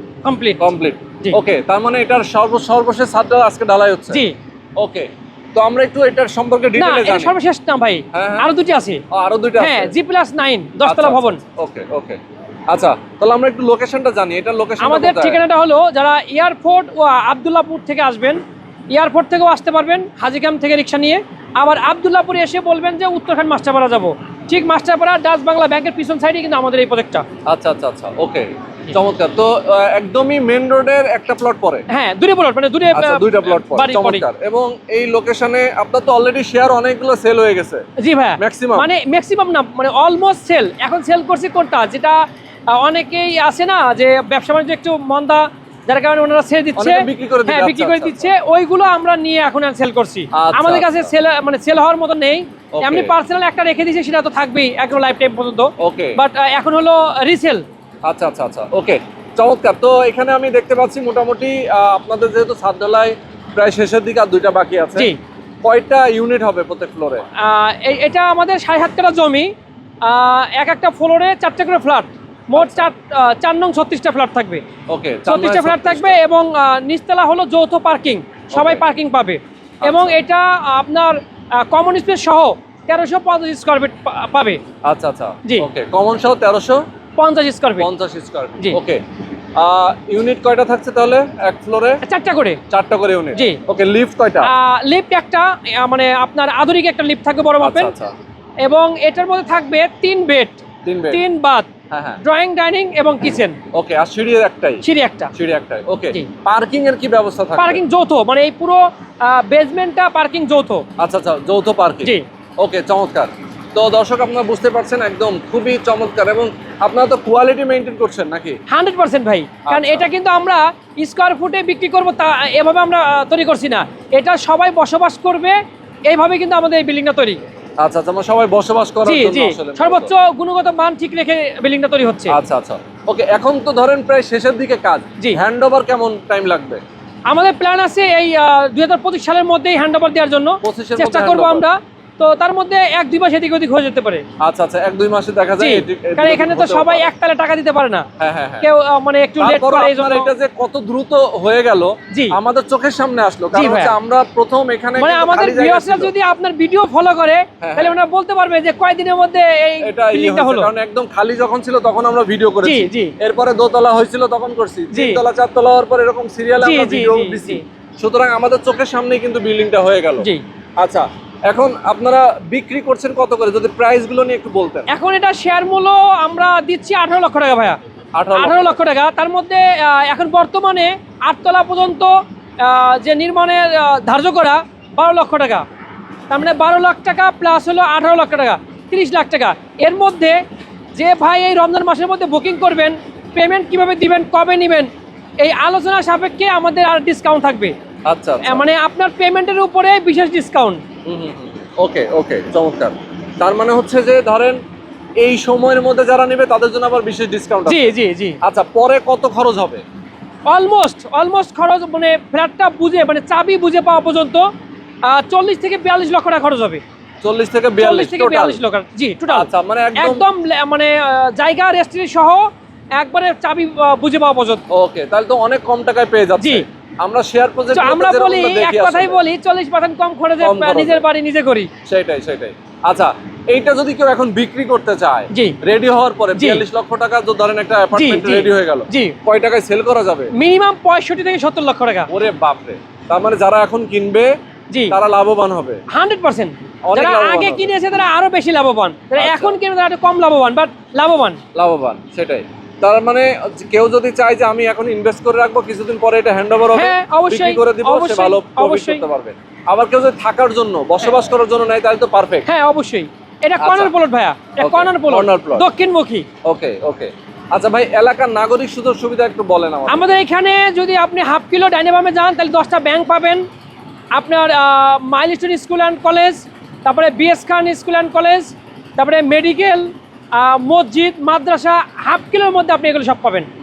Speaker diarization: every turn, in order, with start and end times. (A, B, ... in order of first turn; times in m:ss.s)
0:00.2-0:00.7 A
0:00.6-0:04.2 B
0:04.1-0:04.4 A
0:04.8-0:07.3 B
0:06.8-0:09.0 A
0:08.1-0:08.5 B
0:09.1-0:10.0 B
0:09.6-0:11.4 A
0:10.8-0:15.4 B
0:14.8-0:27.3 A
0:27.5-0:31.9 B
0:31.9-0:34.2 A
0:32.9-0:37.8 B
0:38.0-0:57.6 A
0:38.4-0:38.9 B
0:46.8-0:48.3 B
0:50.3-0:51.1 B
0:52.7-0:53.1 B
0:55.8-0:56.2 B
0:58.0-1:05.1 B
1:05.6-1:07.2 B
1:07.4-1:14.6 A
1:12.6-1:12.9 B
1:14.9-1:16.2 B
1:15.3-1:24.6 A
1:18.5-1:18.8 B
1:19.8-1:20.2 B
1:24.8-1:26.8 B
1:27.2-1:27.9 A
1:27.8-1:29.0 B
1:29.6-1:32.0 B
1:32.0-1:32.6 A
1:32.7-1:34.5 B
1:33.3-1:33.6 A
1:34.4-1:37.9 A
1:37.6-1:38.1 B
1:38.6-1:41.7 A
1:40.8-1:41.2 B
1:41.9-1:42.2 B
1:42.2-1:43.6 A
1:43.7-1:44.8 B
1:44.8-1:45.3 A
1:45.4-1:47.8 B
1:47.6-1:50.9 A
1:51.0-1:58.6 B
1:58.7-2:07.4 A
1:59.7-2:00.1 B
2:07.8-2:10.1 B
2:09.0-2:12.4 A
2:12.3-2:16.8 B
2:17.3-2:24.2 A
2:20.6-2:21.7 B
2:24.4-2:27.1 B
2:25.6-2:28.1 A
2:28.2-2:28.7 B
2:28.6-2:30.3 A
2:29.4-2:36.1 B
2:32.1-2:32.4 A
2:33.5-2:34.0 A
2:35.0-2:40.7 A
2:37.6-2:38.0 B
2:39.8-2:54.9 B
2:42.6-2:43.2 A
2:44.9-2:45.2 A
2:46.6-2:47.6 A
2:54.9-2:57.8 A
2:58.2-2:58.8 B
2:58.3-3:05.7 A
3:06.3-3:10.4 A
3:10.9-3:17.8 A
3:18.1-3:18.6 B
3:18.4-3:20.8 A
3:21.0-3:24.6 B
3:25.2-3:29.8 B
3:27.7-3:28.4 A
3:30.5-3:34.5 A
3:35.0-3:36.8 A
3:37.2-3:38.6 B
3:37.8-3:44.6 A
3:39.3-3:40.2 B
3:44.7-3:49.2 B
3:46.4-3:46.6 A
3:47.7-3:51.7 A
3:50.4-3:51.0 B
3:51.9-4:00.3 B
3:55.3-3:55.6 A
3:56.3-3:56.6 A
3:57.9-3:59.2 A
4:00.3-4:02.1 A
4:02.1-4:04.3 B
4:04.7-4:05.0 A
4:04.9-4:05.8 B
4:05.9-4:11.4 A
4:06.9-4:07.7 B
4:09.2-4:09.6 B
4:11.6-4:22.5 B
4:16.7-4:19.0 A
4:22.5-4:26.3 A
4:23.6-4:23.9 B
4:24.6-4:25.7 B
4:26.4-4:30.1 B
4:29.9-4:33.5 A
4:34.2-4:43.5 A